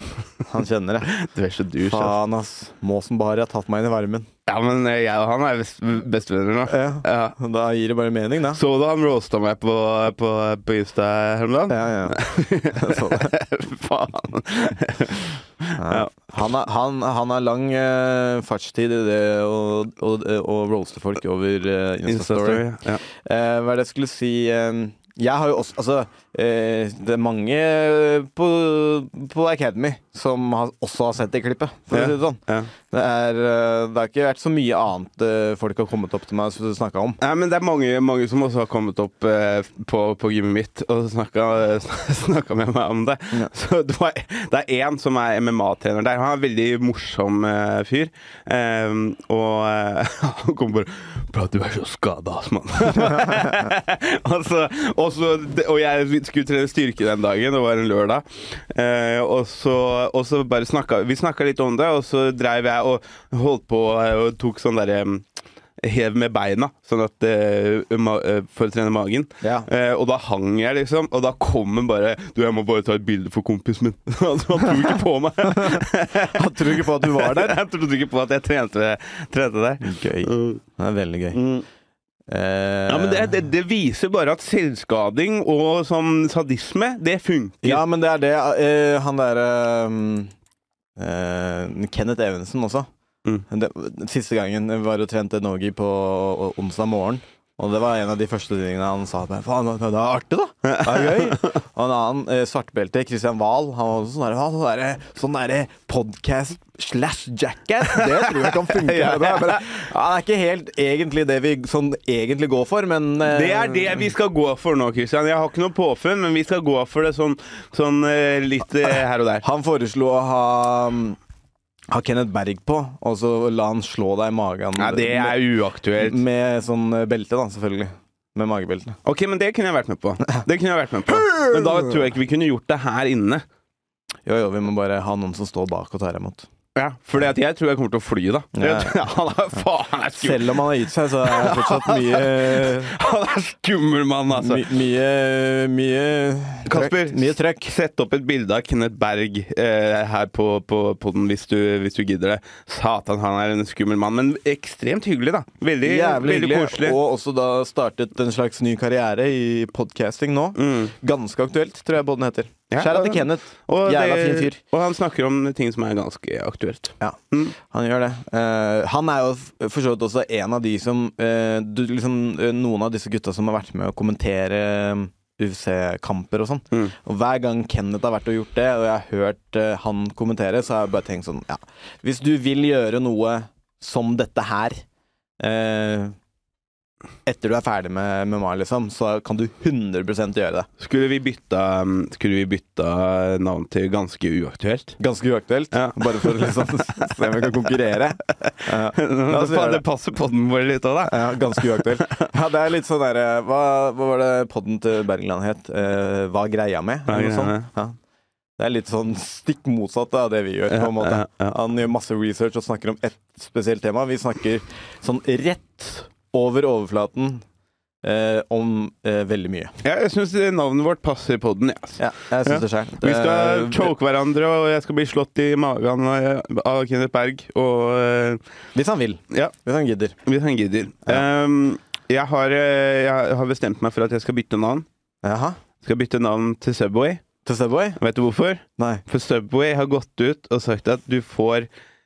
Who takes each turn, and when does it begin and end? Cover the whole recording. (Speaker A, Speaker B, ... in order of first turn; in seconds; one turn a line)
Speaker A: 0.4-1.1
Speaker B: 1.1-2.2
Speaker A: 1.9-4.3
Speaker B: 4.5-7.4
Speaker A: 6.7-8.6
Speaker B: 8.5-16.1
Speaker A: 11.7-12.2
Speaker A: 12.7-13.3
Speaker A: 15.8-37.2
Speaker B: 22.1-23.0
Speaker B: 31.9-32.7
Speaker B: 37.2-65.3
Speaker B: 65.8-80.6
Speaker A: 69.4-69.7
Speaker A: 75.5-75.8
Speaker A: 76.3-77.6
Speaker A: 79.8-81.4
Speaker B: 81.3-81.7
Speaker A: 82.3-83.4
Speaker B: 82.9-87.8
Speaker A: 87.6-90.3
Speaker A: 91.0-92.9
Speaker A: 93.5-114.1
Speaker B: 100.7-101.5
Speaker B: 107.9-109.7
Speaker B: 113.2-119.4
Speaker A: 119.4-121.2
Speaker A: 121.9-125.4
Speaker B: 124.8-126.2
Speaker A: 126.0-129.0
Speaker B: 129.0-133.4
Speaker A: 131.2-131.9
Speaker A: 134.3-136.5
Speaker B: 136.8-140.6
Speaker A: 138.6-139.0
Speaker A: 140.2-142.9
Speaker B: 141.2-144.7
Speaker A: 144.3-147.7
Speaker B: 146.7-157.0
Speaker A: 155.8-164.6
Speaker B: 160.6-160.9
Speaker B: 162.7-167.6
Speaker A: 167.0-184.8
Speaker A: 185.4-186.2
Speaker A: 187.3-190.7
Speaker B: 190.8-195.0
Speaker A: 195.0-199.8
Speaker B: 195.7-197.0
Speaker B: 198.4-202.2
Speaker A: 201.1-208.0
Speaker B: 207.1-207.7
Speaker A: 208.6-217.4
Speaker B: 210.7-211.6
Speaker A: 218.0-219.7
Speaker B: 219.8-228.4
Speaker A: 222.0-223.9
Speaker A: 228.8-230.2
Speaker B: 230.2-234.9
Speaker A: 235.2-235.6
Speaker B: 235.8-237.2
Speaker A: 237.4-238.0
Speaker B: 238.0-241.7
Speaker A: 238.8-239.0